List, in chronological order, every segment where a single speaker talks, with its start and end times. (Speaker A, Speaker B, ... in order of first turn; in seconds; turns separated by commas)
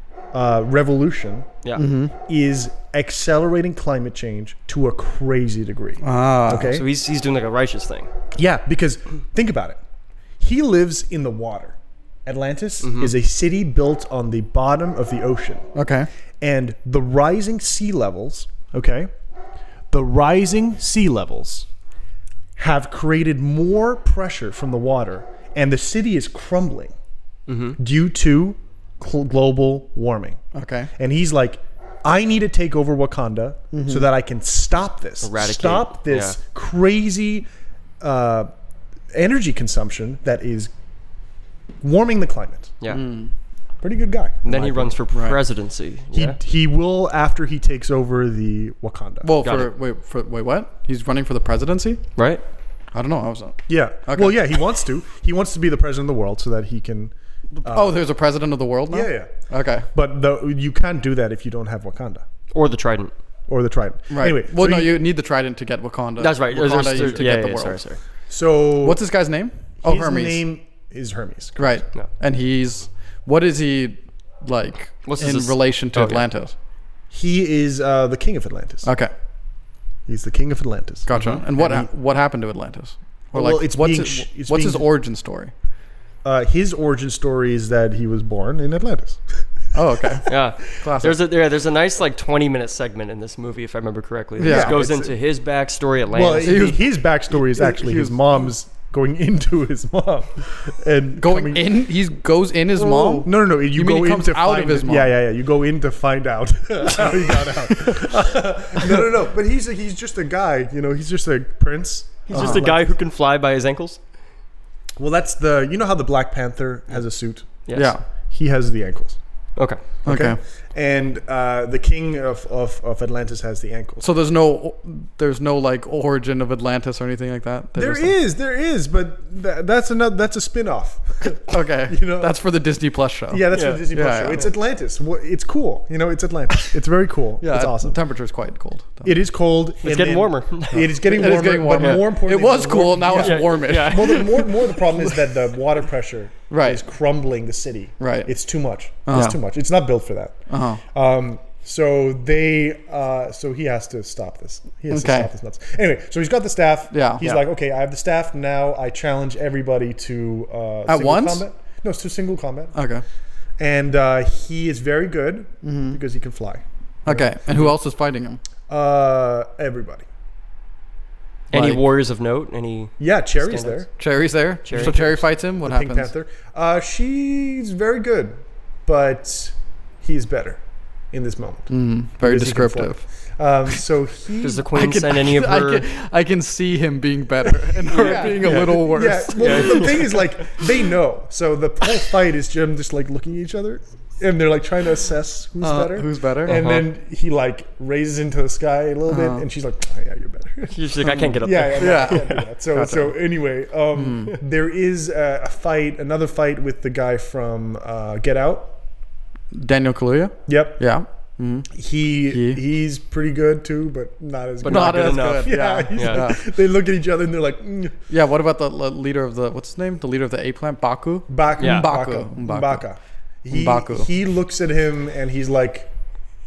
Speaker A: 0.3-1.5, Speaker B: 1.8-2.1, Speaker A: 2.2-6.8, Speaker B: 6.0-6.8, Speaker C: 6.5-8.1, Speaker A: 8.3-9.8, Speaker A: 10.4-15.7, Speaker C: 12.8-13.1, Speaker B: 15.7-16.1, Speaker A: 16.4-19.1, Speaker A: 19.9-21.7, Speaker A: 22.6-26.9, Speaker C: 27.5-27.8, Speaker A: 27.8-30.4, Speaker B: 30.5-30.9, Speaker A: 31.0-37.5, Speaker B: 33.7-34.1, Speaker C: 35.2-36.4, Speaker A: 38.0-38.5, Speaker A: 39.1-40.7, Speaker A: 41.8-42.8, Speaker B: 42.9-43.3, Speaker A: 43.8-45.0, Speaker C: 44.4-46.4, Speaker B: 45.1-45.4, Speaker A: 46.1-49.3, Speaker B: 49.2-52.0, Speaker C: 49.4-49.7, Speaker C: 52.1-52.4, Speaker B: 52.9-54.4, Speaker A: 53.7-57.1, Speaker B: 57.6-59.9, Speaker A: 57.6-58.0, Speaker A: 58.9-59.3, Speaker A: 59.9-62.2, Speaker C: 62.5-63.1, Speaker A: 63.5-65.0, Speaker B: 64.1-67.8, Speaker C: 66.2-68.0, Speaker A: 68.3-69.0, Speaker B: 68.8-70.4, Speaker A: 69.8-71.8, Speaker B: 71.6-76.5, Speaker C: 75.0-76.2, Speaker A: 77.1-78.9, Speaker B: 78.8-79.1, Speaker A: 80.1-81.9, Speaker B: 81.1-85.5, Speaker C: 81.1-81.4, Speaker A: 83.3-84.8, Speaker A: 86.2-89.2, Speaker B: 89.7-91.2, Speaker C: 90.2-96.7, Speaker B: 94.4-94.8, Speaker A: 94.4-95.1, Speaker A: 96.1-101.7, Speaker B: 96.4-98.5, Speaker B: 101.2-105.2, Speaker A: 102.9-112.9, Speaker C: 102.9-103.2, Speaker C: 112.3-114.0, Speaker B: 112.3-112.7, Speaker A: 115.0-117.5, Speaker C: 117.7-117.9, Speaker B: 117.7-118.0, Speaker A: 118.3-119.2, Speaker C: 119.5-119.8, Speaker B: 120.0-120.4, Speaker A: 120.0-124.1, Speaker B: 124.0-128.2, Speaker A: 127.8-132.3, Speaker B: 131.4-134.5, Speaker A: 133.3-138.0, Speaker C: 133.5-133.8, Speaker B: 137.4-139.2, Speaker A: 139.0-162.8, Speaker C: 139.8-141.0, Speaker B: 140.8-145.4, Speaker C: 141.8-142.0, Speaker C: 143.1-144.5, Speaker B: 146.5-146.8, Speaker B: 148.0-148.3, Speaker B: 149.1-149.4, Speaker B: 150.5-150.8, Speaker B: 154.9-155.3, Speaker B: 156.9-157.4, Speaker B: 160.9-161.4, Speaker B: 162.7-163.0, Speaker A: 163.6-167.6, Speaker B: 165.6-166.0, Speaker B: 167.1-168.4, Speaker A: 168.7-170.0, Speaker C: 171.5-173.9, Speaker B: 171.5-171.8, Speaker A: 173.0-173.9, Speaker B: 174.0-176.1, Speaker C: 174.7-175.0, Speaker A: 174.7-180.6, Speaker A: 181.1-184.8, Speaker B: 181.7-183.0, Speaker C: 184.4-185.8, Speaker B: 184.8-190.2, Speaker A: 187.8-208.7, Speaker C: 187.9-188.8, Speaker C: 189.4-190.2, Speaker B: 195.6-196.7, Speaker C: 196.4-196.9, Speaker B: 199.1-199.4, Speaker C: 200.7-202.2, Speaker B: 201.1-203.2, Speaker B: 203.9-204.4, Speaker B: 209.5-211.7, Speaker A: 210.5-210.8, Speaker A: 211.7-218.0, Speaker B: 212.3-212.6, Speaker C: 214.6-216.2, Speaker B: 214.6-216.4, Speaker B: 218.1-222.8, Speaker A: 221.3-225.9, Speaker C: 221.6-221.9, Speaker B: 223.5-224.1